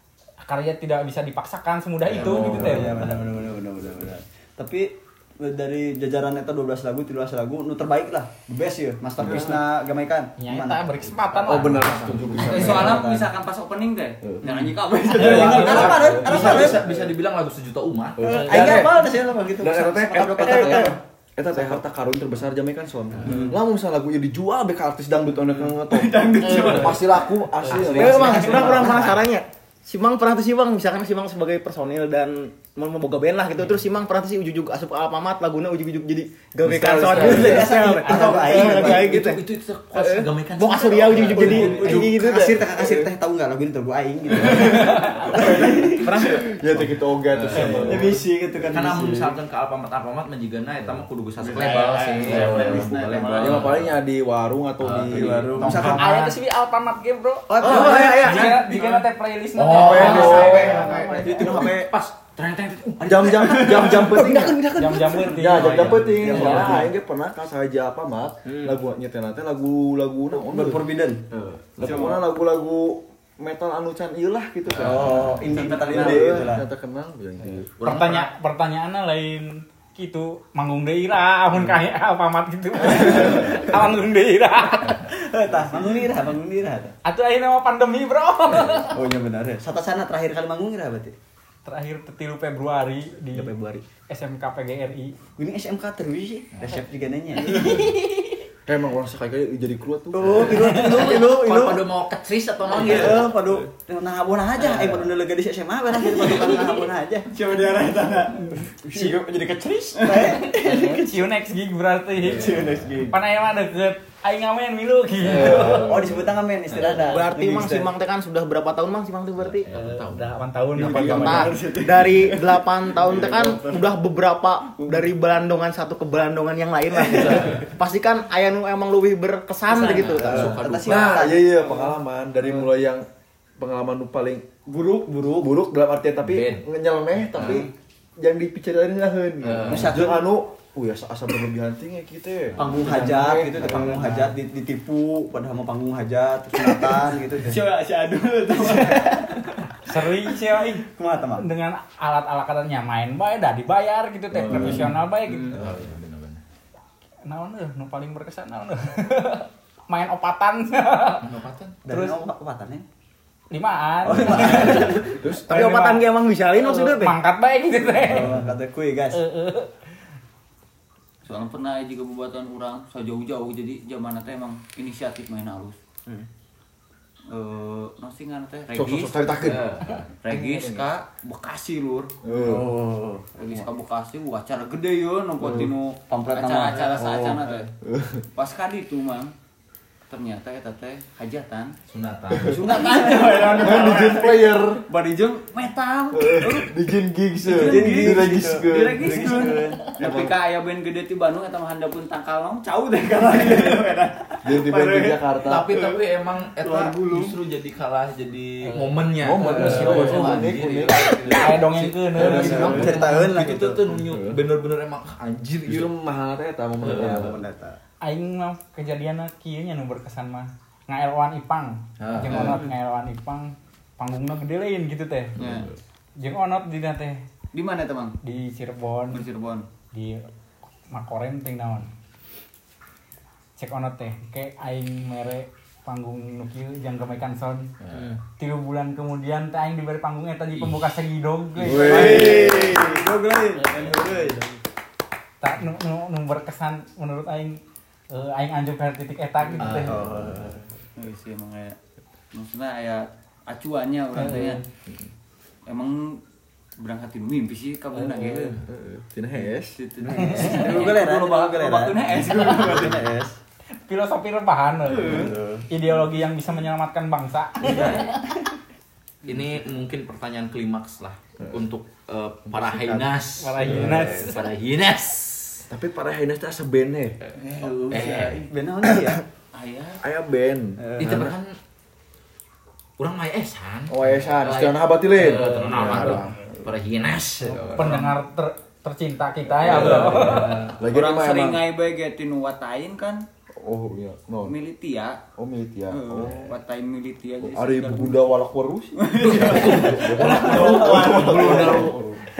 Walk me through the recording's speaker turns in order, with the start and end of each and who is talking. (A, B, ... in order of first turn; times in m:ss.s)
0:00.4-0:03.0 A
0:02.1-0:10.9 B
0:02.2-0:03.2 C
0:02.3-0:02.8 D
0:09.2-0:09.5 C
0:10.4-0:12.7 A
0:11.4-0:13.2 C
0:11.8-0:12.9 D
0:12.4-0:16.2 E
0:12.7-0:13.2 B
0:14.2-0:17.1 C
0:15.1-0:16.8 B
0:15.2-0:18.8 D
0:18.2-0:29.1 C
0:18.2-0:21.8 B
0:20.5-0:21.0 F
0:23.2-0:23.6 B
0:25.7-0:27.4 E
0:27.7-0:28.5 A
0:27.8-0:39.4 F
0:27.8-0:29.2 B
0:28.6-0:29.0 E
0:36.6-0:37.8 C
0:37.1-0:39.3 B
0:37.2-0:38.6 A
0:38.5-0:42.1 D
0:40.0-0:42.6 F
0:41.1-0:46.4 B
0:41.4-0:43.1 C
0:44.4-0:44.8 C
0:45.0-0:45.6 A
0:45.4-0:48.2 C
0:46.0-0:46.5 F
0:47.3-0:48.2 D
0:47.5-0:49.4 B
0:48.7-0:54.0 D
0:51.4-0:53.6 E
0:51.5-0:53.4 B
0:52.2-0:56.0 C
0:54.8-0:56.2 D
0:55.1-0:56.3 B
0:55.8-1:01.6 A
0:57.5-0:58.7 F
0:57.6-0:58.8 B
0:57.6-0:58.2 C
0:57.9-0:58.5 D
0:59.6-1:04.1 D
0:59.8-1:01.6 C
0:59.9-1:01.9 B
1:00.0-1:00.4 E
1:00.1-1:01.5 F
1:03.0-1:04.2 E
1:03.0-1:17.7 C
1:03.6-1:04.6 B
1:04.7-1:06.7 A
1:05.5-1:06.9 B
1:05.7-1:06.8 D
1:10.3-1:11.2 B
1:11.8-1:12.3 E
1:14.7-1:15.5 D
1:14.8-1:16.6 B
1:15.4-1:16.5 E
1:17.8-1:18.3 D
1:17.8-1:25.0 A
1:25.1-1:27.0 B
1:27.0-1:29.0 A
1:28.9-1:31.2 B
1:31.7-1:33.5 A
1:33.3-1:33.8 F
1:34.1-1:35.2 A
1:35.4-1:37.9 B
1:37.5-1:38.0 A
1:38.7-1:40.8 C
1:40.1-1:41.9 B
1:40.3-1:43.4 D
1:42.7-1:51.0 B
1:50.0-1:51.1 E
1:50.3-1:55.9 A
1:52.3-1:53.1 B
1:52.4-1:52.8 D
1:55.3-1:56.0 C
1:55.3-1:56.2 D
1:55.4-1:57.9 B
1:56.8-1:59.7 F
1:59.4-2:00.4 D
1:59.7-2:01.6 A
2:00.8-2:01.6 C
2:00.8-2:02.2 B
2:00.9-2:10.5 F
2:03.0-2:03.8 C
2:09.7-2:11.8 B
2:09.8-2:11.3 D
2:10.3-2:13.0 C
2:13.6-2:14.5 C
2:15.2-2:17.7 C
2:16.2-2:16.7 D
2:17.4-2:17.6 B
2:18.2-2:24.3 C
2:19.4-2:20.0 D
2:19.6-2:20.3 B
2:22.6-2:27.6 B
2:23.6-2:23.9 D
2:27.4-2:29.5 E
2:28.7-2:29.1 B
2:29.8-2:35.6 A
2:30.9-2:31.5 B
2:34.4-2:34.9 D
2:34.5-2:34.9 C
2:35.3-2:35.6 E
2:35.5-2:36.4 D
2:37.2-2:41.3 A
2:41.2-2:41.8 D
2:41.9-2:42.8 B
2:41.9-2:42.2 A
2:43.5-2:48.4 A
2:44.1-2:45.2 B
2:45.2-2:45.5 C
2:45.5-2:47.2 F
2:48.0-2:49.2 B
2:49.1-2:49.7 A
2:51.2-2:55.8 E
2:57.3-2:59.6 E
2:58.7-2:59.7 C
2:59.4-3:00.1 D
3:00.2-3:02.1 E
3:02.2-3:02.7 C
3:02.4-3:03.6 B
3:03.4-3:07.7 E
3:06.1-3:07.6 B
3:07.8-3:08.2 C
3:08.3-3:09.3 E
3:10.1-3:11.7 E
3:11.9-3:12.7 D
3:12.3-3:12.6 C
3:12.4-3:16.8 E
3:12.7-3:14.3 B
3:13.6-3:14.8 C
3:16.1-3:20.3 C
3:17.4-3:26.0 E
3:17.6-3:20.3 B
3:23.3-3:23.8 B
3:24.4-3:25.7 C
3:25.4-3:35.9 D
3:26.6-3:27.4 E
3:28.8-3:30.2 A
3:29.2-3:31.4 C
3:31.3-3:33.0 A
3:32.1-3:33.0 C
3:32.2-3:33.8 B
3:33.9-3:34.4 C
3:35.7-3:37.4 C
3:36.8-3:37.3 D
3:37.0-3:37.8 B
3:38.0-3:45.4 A
3:42.0-3:42.6 C
3:42.0-3:42.6 D
3:45.4-3:45.7 C
3:45.4-3:45.7 E
3:46.2-3:47.2 A
3:47.5-3:48.2 E
3:48.2-3:49.2 A
3:49.1-3:49.7 E
3:49.9-3:50.3 A
3:50.9-3:51.9 A
3:53.6-3:57.7 A
3:57.8-3:58.2 D
3:58.4-4:02.3 A
4:01.6-4:03.0 C
4:01.6-4:04.4 B
4:01.9-4:04.6 E
4:05.4-4:07.6 A
4:08.1-4:10.0 A
4:09.6-4:10.3 D
4:09.9-4:10.6 B
4:09.9-4:10.5 C
4:11.0-4:11.8 E
4:12.3-4:14.6 E
4:14.2-4:14.6 A
4:15.7-4:16.2 E
4:16.8-4:18.6 E
4:18.6-4:19.8 C
4:19.4-4:23.1 E
4:20.1-4:23.4 B
4:20.2-4:20.7 A
4:23.8-4:28.5 A
4:24.9-4:25.4 E
4:25.0-4:25.6 B
4:27.6-4:28.1 E
4:29.2-4:35.6 D
4:32.5-4:34.3 C
4:33.4-4:34.4 A
4:35.7-4:37.2 C
4:37.4-4:38.5 E
4:37.6-4:39.2 B
4:37.9-4:38.5 D
4:39.5-4:40.0 E
4:40.0-4:41.1 C
4:40.8-4:41.4 B
4:41.0-4:41.5 D
4:43.0-4:48.1 D
4:43.9-4:46.4 C
4:45.4-4:45.6 E
4:45.7-4:46.1 A
4:47.5-4:48.0 C
4:47.8-4:50.6 A
4:49.6-4:50.7 D
4:49.6-4:51.6 C
4:49.7-4:53.2 E
4:53.6-4:54.6 C
4:54.4-4:55.2 E
4:55.4-4:56.5 C
4:55.9-4:58.3 E
4:57.4-5:02.2 C
4:59.0-5:01.9 E
4:59.2-5:02.0 D
5:00.2-5:01.9 B
5:00.3-5:01.2 A